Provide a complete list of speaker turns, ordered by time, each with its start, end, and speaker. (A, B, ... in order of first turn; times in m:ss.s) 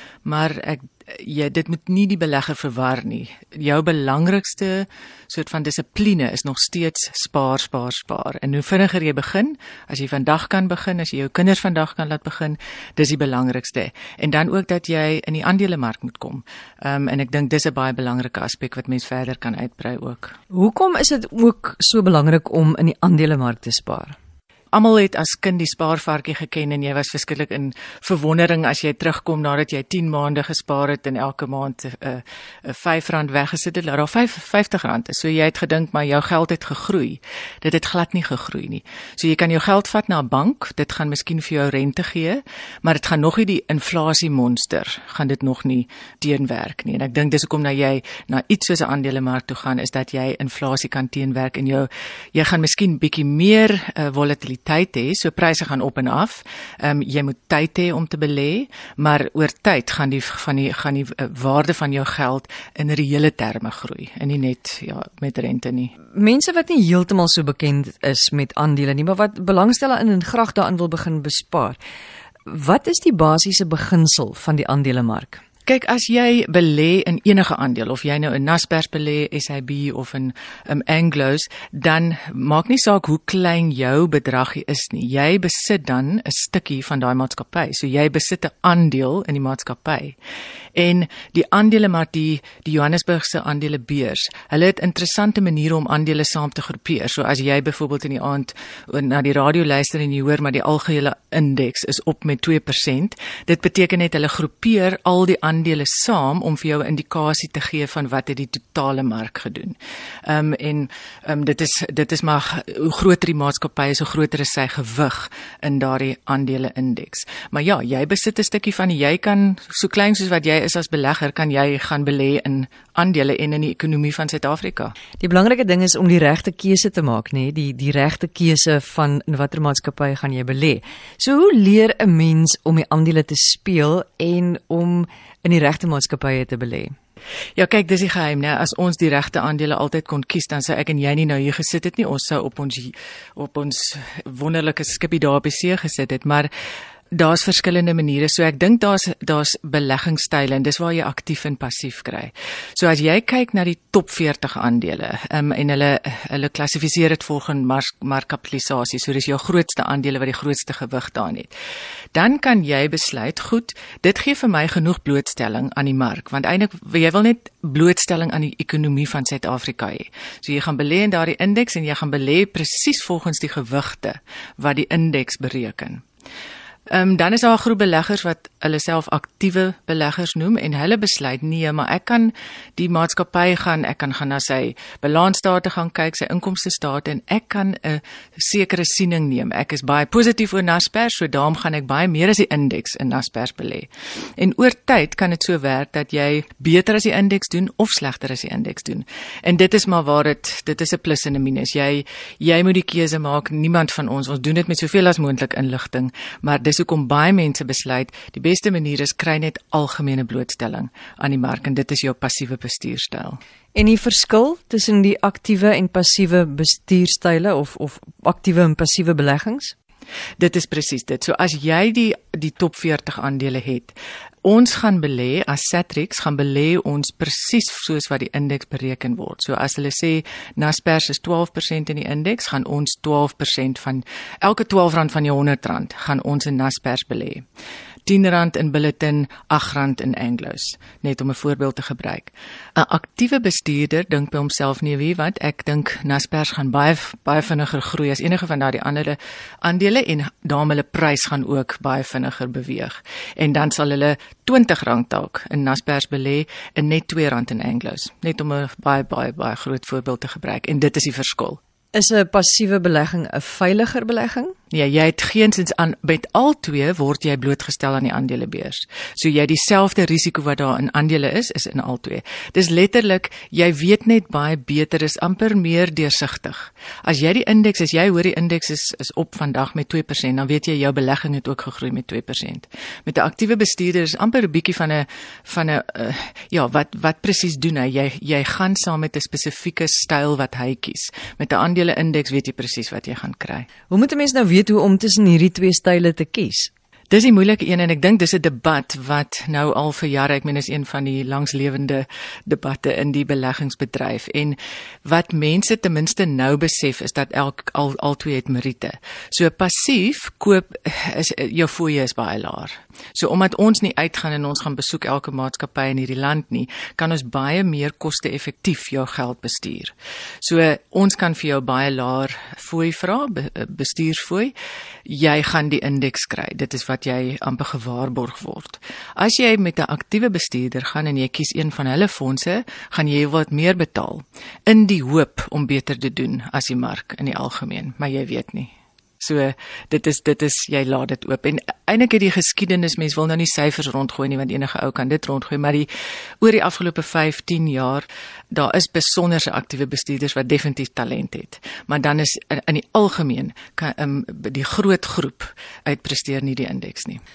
0:00.2-0:20.4 A
0:20.5-0:24.2 B
0:24.7-1:05.9 A
1:06.1-1:11.8 B
1:12.5-1:15.4 B
1:15.6-1:30.2 A
1:30.7-2:04.9 A
2:05.2-2:16.9 B
2:17.6-2:26.5 A
2:27.1-2:41.5 A
2:42.1-2:56.0 A
2:56.9-3:33.4 A
3:33.7-3:39.7 B
3:40.4-3:57.4 A
3:58.0-4:21.6 A
4:21.9-4:24.5 B
4:24.7-4:53.7 A
4:53.9-4:56.7 B
4:57.1-5:24.5 A
5:25.0-5:45.9 A
5:46.4-5:57.2 A